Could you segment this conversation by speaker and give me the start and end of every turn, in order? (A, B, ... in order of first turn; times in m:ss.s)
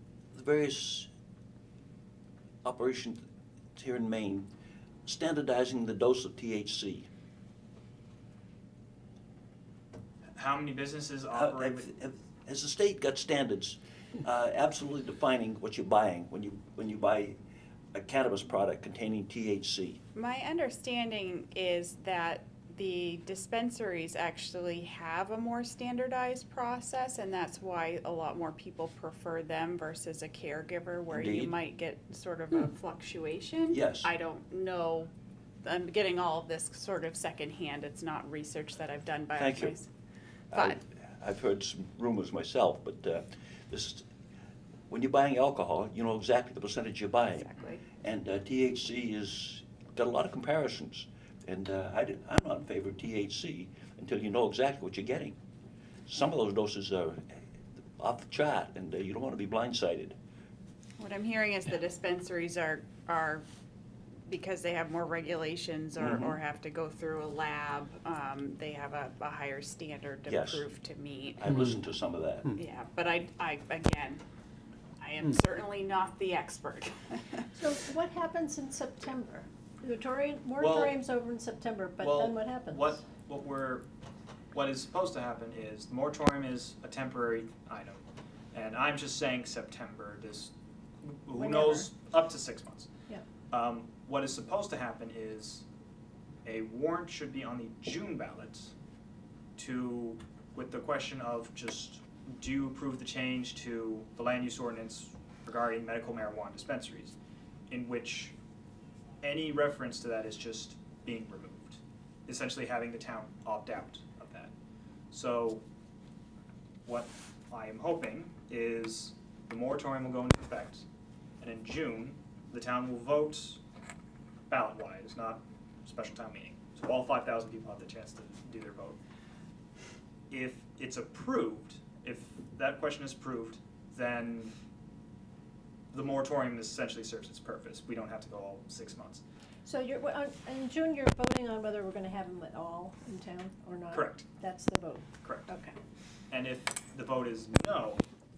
0:00.3-0:01.1 A
0:02.6-0:04.5 A
0:05.0-0:07.1 A
0:10.4-0:11.9 B
0:11.3-0:17.4 A
0:17.9-0:20.0 A
0:20.2-0:35.1 C
0:31.1-0:31.6 A
0:33.7-0:34.1 A
0:35.6-0:39.9 C
0:39.4-0:39.8 A
0:40.5-0:44.1 A
0:44.9-0:47.5 A
0:47.3-0:47.8 C
0:48.0-0:55.4 A
0:56.1-0:57.4 A
0:58.0-1:00.2 A
1:01.0-1:03.4 C
1:04.3-1:11.4 C
1:06.0-1:06.4 A
1:10.3-1:10.7 A
1:11.4-1:12.5 A
1:12.6-1:14.2 C
1:15.0-1:17.5 C
1:17.5-1:23.1 D
1:20.6-1:21.0 B
1:22.0-1:23.9 B
1:24.5-1:28.0 B
1:28.5-1:32.9 B
1:31.4-1:31.9 D
1:33.5-1:35.7 B
1:36.4-1:38.7 B
1:39.6-1:47.2 B
1:47.7-1:48.4 B
1:49.2-1:54.5 B
1:55.1-1:55.6 B
1:56.8-2:00.9 B
2:01.4-2:03.6 B
2:04.5-2:09.0 B
2:10.3-2:14.6 B
2:15.9-2:19.2 B
2:19.6-2:25.8 D
2:23.9-2:24.3 B
2:25.2-2:25.5 B
2:26.3-2:28.0 B